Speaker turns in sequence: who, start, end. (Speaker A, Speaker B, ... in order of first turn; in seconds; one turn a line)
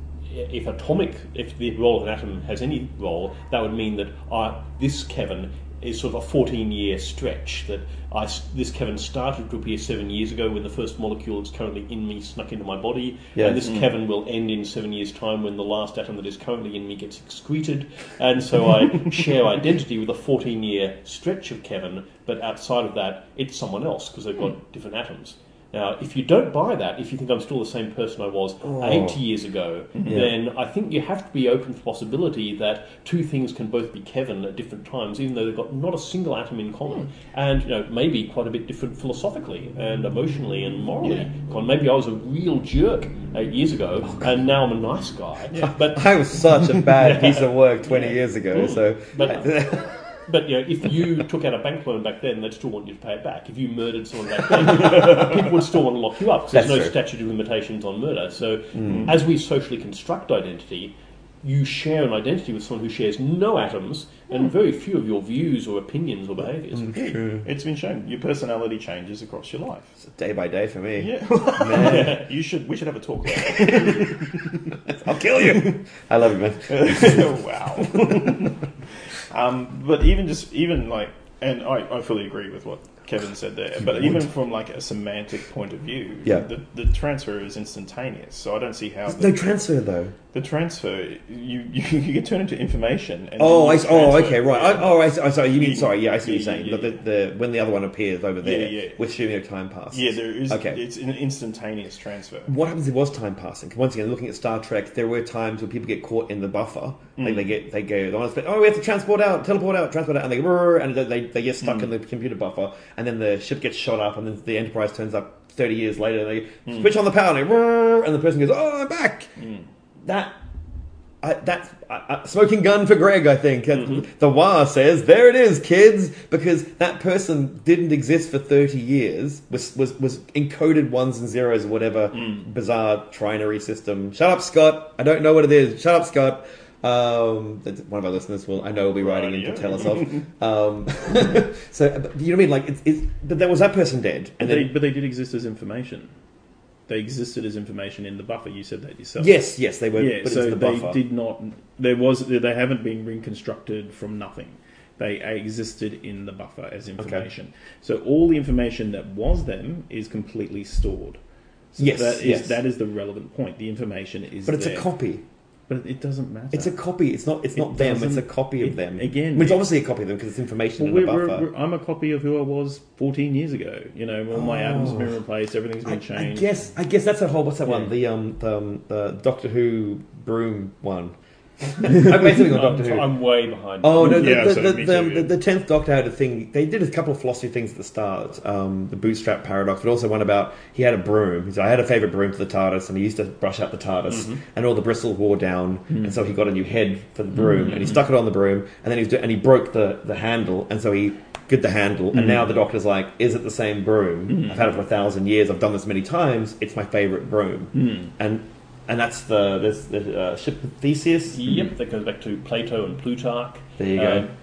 Speaker A: 0.3-46.1
Speaker B: 13.3-13.6
Speaker B: 28.6-29.2
Speaker C: 30.0-30.2
Speaker B: 45.9-49.9
Speaker A: 47.0-67.1
Speaker B: 56.5-56.9
Speaker B: 58.7-59.1
Speaker C: 58.9-59.2
Speaker B: 66.7-67.5
Speaker C: 66.9-70.0
Speaker B: 70.0-72.2
Speaker C: 71.0-74.8
Speaker A: 71.7-72.2
Speaker B: 73.3-78.4
Speaker C: 75.3-75.8
Speaker C: 76.7-89.6
Speaker B: 89.1-90.1
Speaker C: 90.3-95.0
Speaker B: 93.4-100.8
Speaker C: 95.5-97.0
Speaker C: 98.4-99.1
Speaker C: 99.9-102.5
Speaker B: 102.5-119.3
Speaker C: 107.2-107.5
Speaker C: 111.6-111.9
Speaker C: 116.7-116.9
Speaker C: 119.4-119.7
Speaker B: 120.0-120.3
Speaker B: 121.2-144.7
Speaker C: 132.1-132.4
Speaker C: 139.0-140.3
Speaker C: 144.4-146.1
Speaker C: 146.9-149.4
Speaker B: 149.2-151.0
Speaker C: 149.9-161.2
Speaker B: 157.0-157.2
Speaker C: 161.7-164.9
Speaker B: 161.8-162.6
Speaker B: 164.4-165.2
Speaker C: 165.7-166.8
Speaker B: 166.5-171.5
Speaker C: 167.6-169.6
Speaker C: 170.8-176.7
Speaker B: 174.3-175.1
Speaker B: 175.8-183.1
Speaker A: 182.1-184.3
Speaker B: 183.8-211.5
Speaker C: 184.0-185.3
Speaker A: 194.1-194.4
Speaker C: 197.4-198.0
Speaker C: 202.1-202.4
Speaker C: 204.3-204.7
Speaker C: 207.7-208.1
Speaker A: 211.3-214.3
Speaker B: 213.8-214.3